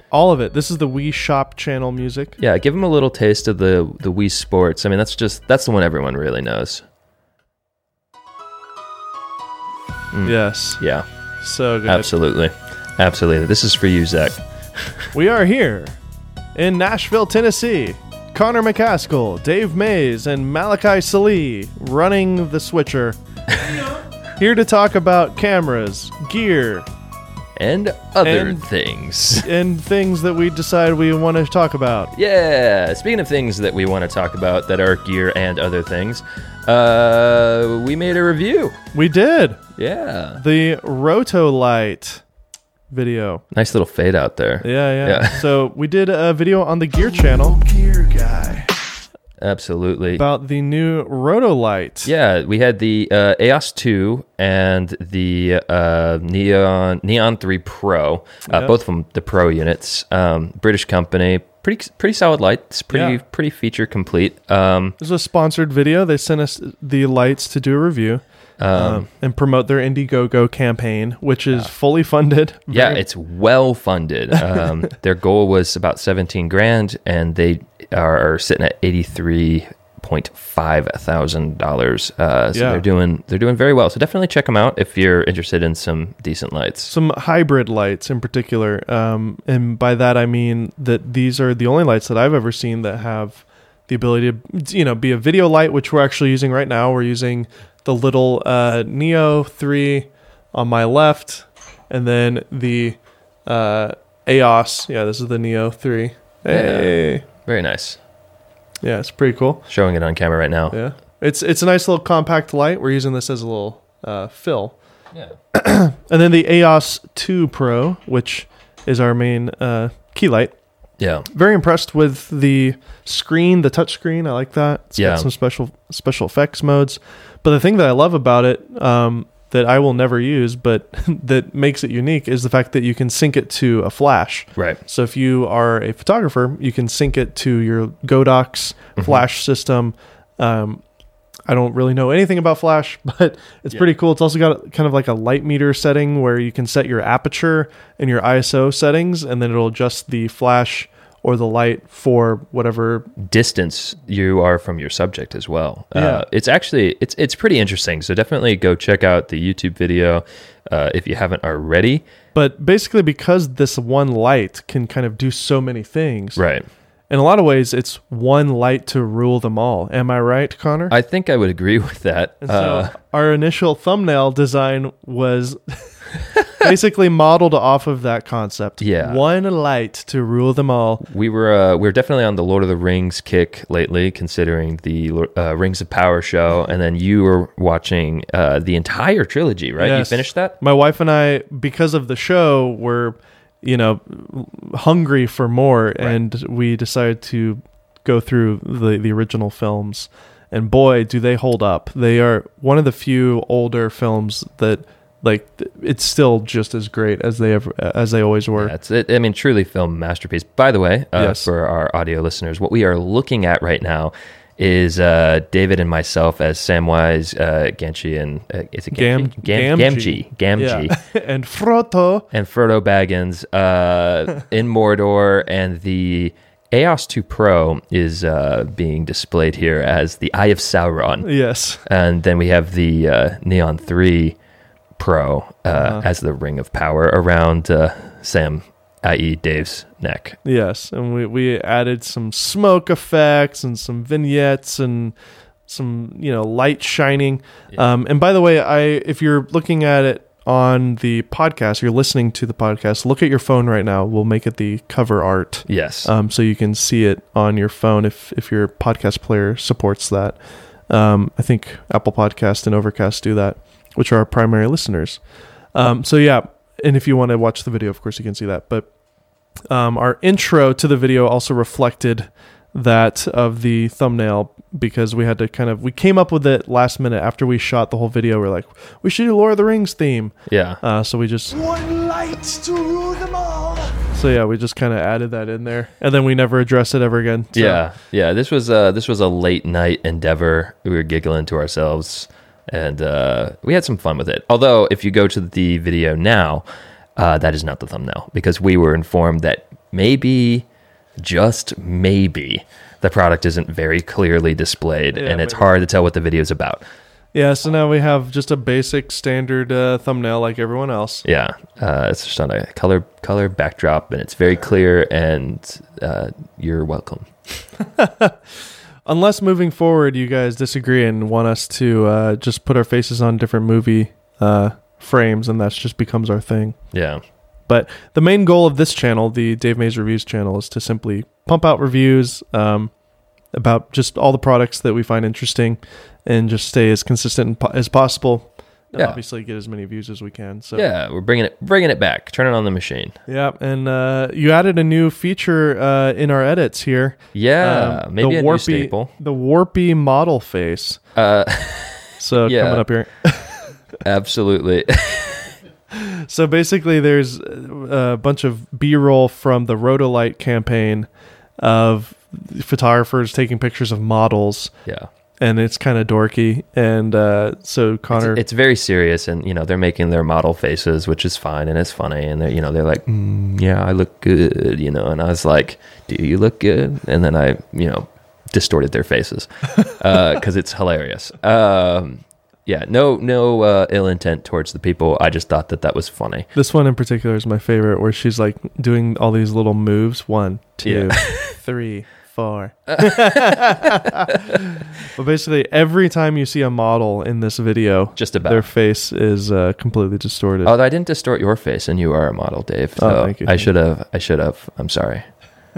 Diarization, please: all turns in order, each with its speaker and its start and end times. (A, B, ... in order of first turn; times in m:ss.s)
0:00.1-0:02.4 A
0:02.4-0:06.8 B
0:10.1-0:11.0 B
0:10.2-0:10.8 A
0:11.4-0:12.1 A
0:11.9-0:15.0 B
0:15.1-0:15.9 A
0:16.5-0:26.9 A
0:27.6-0:29.5 B
0:28.2-0:28.6 A
0:29.4-0:32.1 A
0:32.1-0:38.8 B
0:38.9-0:39.6 A
0:39.8-0:40.4 B
0:40.3-0:42.2 A
0:42.9-0:43.4 A
0:43.5-0:45.4 B
0:44.6-0:48.7 A
0:49.4-0:50.2 B
0:50.2-0:52.1 A
0:52.0-1:05.0 B
1:02.9-1:03.2 A
1:05.0-1:08.2 A
1:08.6-1:09.1 B
1:08.7-1:13.0 A
1:12.7-1:26.9 B
1:14.3-1:14.7 A
1:22.5-1:22.8 A
1:26.9-1:47.2 A
1:46.5-1:48.0 B
1:48.8-1:49.6 A
1:49.7-1:50.8 B
1:50.7-1:54.8 A
1:55.5-2:00.5 A
2:01.0-2:01.2 B
2:01.3-2:20.8 A
2:05.0-2:05.3 B
2:19.0-2:19.2 B
2:21.5-2:33.1 A
2:33.2-2:42.0 B
2:35.9-2:36.2 A
2:42.3-2:46.4 A
2:46.4-2:46.6 B
2:47.1-2:50.9 A
2:50.9-2:52.9 B
2:52.4-3:01.0 A
2:58.8-2:59.2 B
3:01.0-3:10.6 B
3:09.8-3:28.7 A
3:28.6-3:40.9 B
3:31.2-3:31.5 A
3:38.9-3:42.3 A
3:42.3-3:51.3 B
3:51.2-3:51.8 A
3:51.8-3:54.4 B
3:55.0-4:00.4 B
3:55.7-3:56.0 A
4:00.4-4:05.1 A
4:05.7-4:20.4 A
4:15.7-4:16.1 B
4:20.9-4:25.2 A
4:25.7-4:28.9 A
4:29.7-4:42.6 A
4:40.5-4:40.8 B
4:41.7-4:43.8 C
4:43.9-4:47.8 A
4:47.5-4:56.6 B
4:57.2-5:00.7 B
5:01.2-5:06.8 B
5:05.1-5:05.7 A
5:07.3-5:11.2 A
5:11.2-5:17.3 B
5:17.8-5:18.4 A
5:19.0-5:26.8 A
5:26.9-5:27.2 B
5:27.7-5:32.9 A
5:33.6-5:40.8 A
5:40.7-5:43.2 B
5:43.3-5:51.0 A
5:47.3-5:49.1 B
5:51.1-5:52.8 B
5:52.2-5:53.6 A
5:54.0-5:55.5 B
5:55.9-6:01.1 A
6:01.6-6:04.7 A
6:05.4-6:08.4 A
6:08.1-6:26.5 B
6:26.5-6:40.7 A
6:30.8-6:31.6 B
6:32.9-6:34.6 B
6:38.2-6:38.6 B
6:40.6-6:45.2 B
6:43.0-6:43.7 A